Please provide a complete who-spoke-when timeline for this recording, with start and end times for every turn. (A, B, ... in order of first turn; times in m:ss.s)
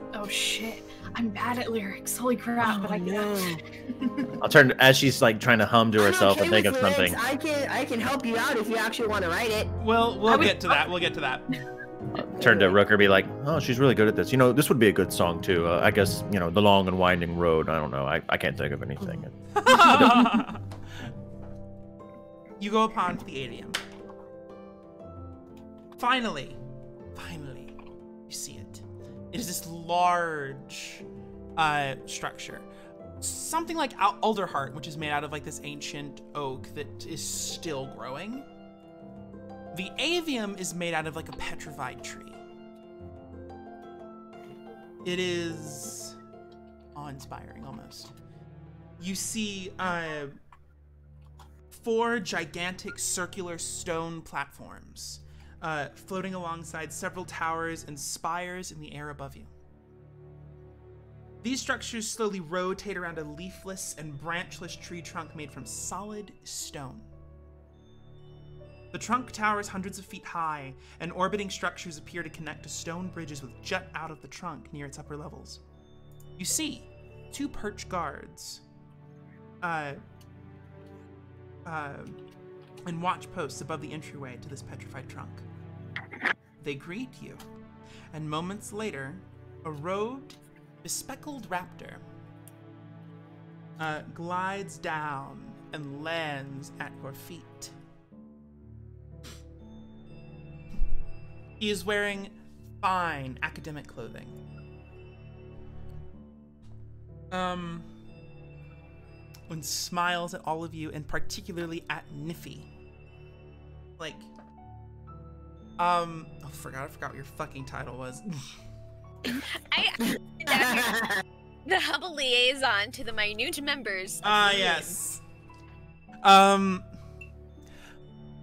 0:00.1-0:04.3 A
0:02.6-0:03.6 B
0:04.4-0:07.2 C
0:06.0-0:09.7 B
0:09.8-0:11.5 D
0:10.3-0:10.8 A
0:12.2-0:20.2 C
0:12.4-0:12.8 B
0:19.0-0:19.3 B
0:19.5-0:20.6 D
0:22.6-0:23.8 D
0:26.0-0:26.6 D
0:27.1-0:27.7 D
0:28.3-0:31.0 D
0:31.6-0:32.7 D
0:33.2-0:38.5 D
0:39.7-0:42.4 D
0:45.0-0:46.2 D
0:46.9-0:48.1 D
0:49.0-0:50.4 D
0:51.7-0:59.5 D
1:01.4-1:07.1 D
1:08.9-1:15.6 D
1:16.4-1:18.6 D
1:19.6-1:20.0 D
1:21.6-1:22.2 D
1:22.8-1:25.4 D
1:26.6-1:27.4 D
1:28.1-1:32.0 D
1:33.8-1:37.7 D
1:41.6-1:44.4 D
1:47.3-1:47.9 D
1:49.5-1:52.7 D
1:54.0-1:54.3 D
1:55.8-1:58.3 D
1:59.3-2:01.0 E
2:00.5-2:01.2 B
2:01.6-2:04.9 E
2:04.2-2:05.2 D
2:06.2-2:06.9 D